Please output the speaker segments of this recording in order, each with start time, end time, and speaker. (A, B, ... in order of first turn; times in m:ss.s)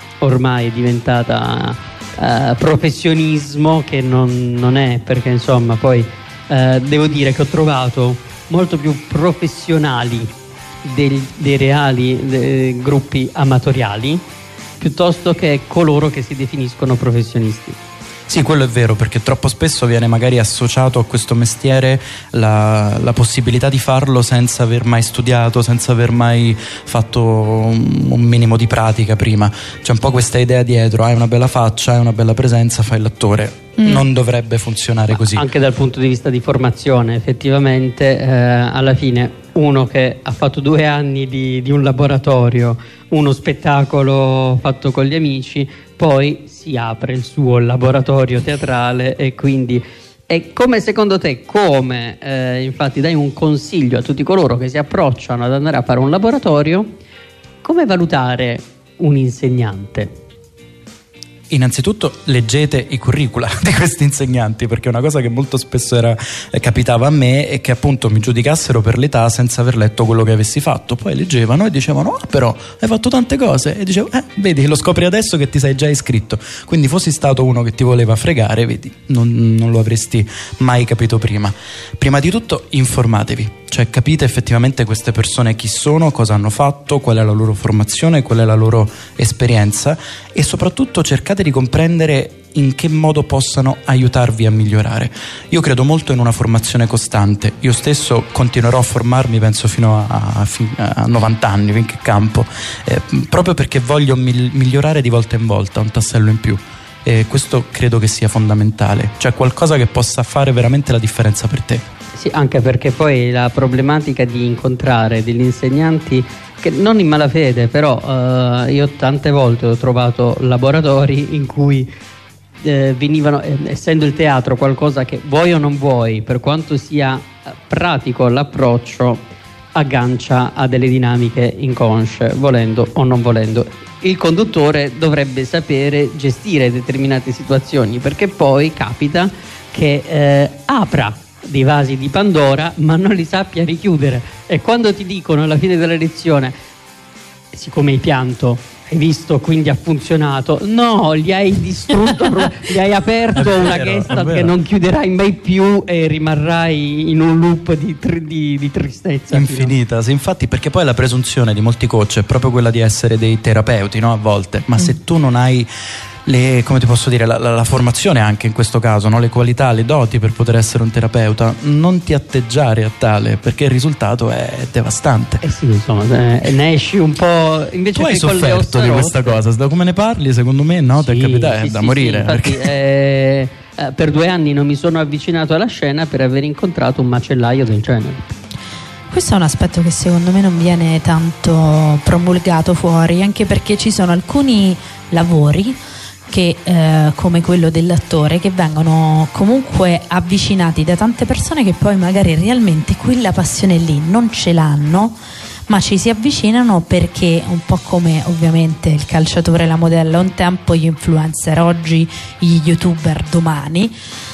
0:00.2-0:10.3 A
0:10.8-0:14.2 A
0:14.8-0:17.8 A
0:18.3-0:35.4 B
0:33.8-0:34.0 C
0:35.1-0:56.9 A
0:57.6-1:00.1 A
1:01.5-1:51.8 B
1:52.2-2:01.9 A
2:02.6-2:09.2 A
2:09.7-2:26.5 A
2:27.5-2:39.7 A
2:33.3-2:34.5 B
2:39.3-2:45.7 B
2:46.2-2:55.4 B
2:55.4-2:59.4 A
2:57.9-3:02.7 B
3:01.0-3:08.3 A
3:09.1-3:33.9 C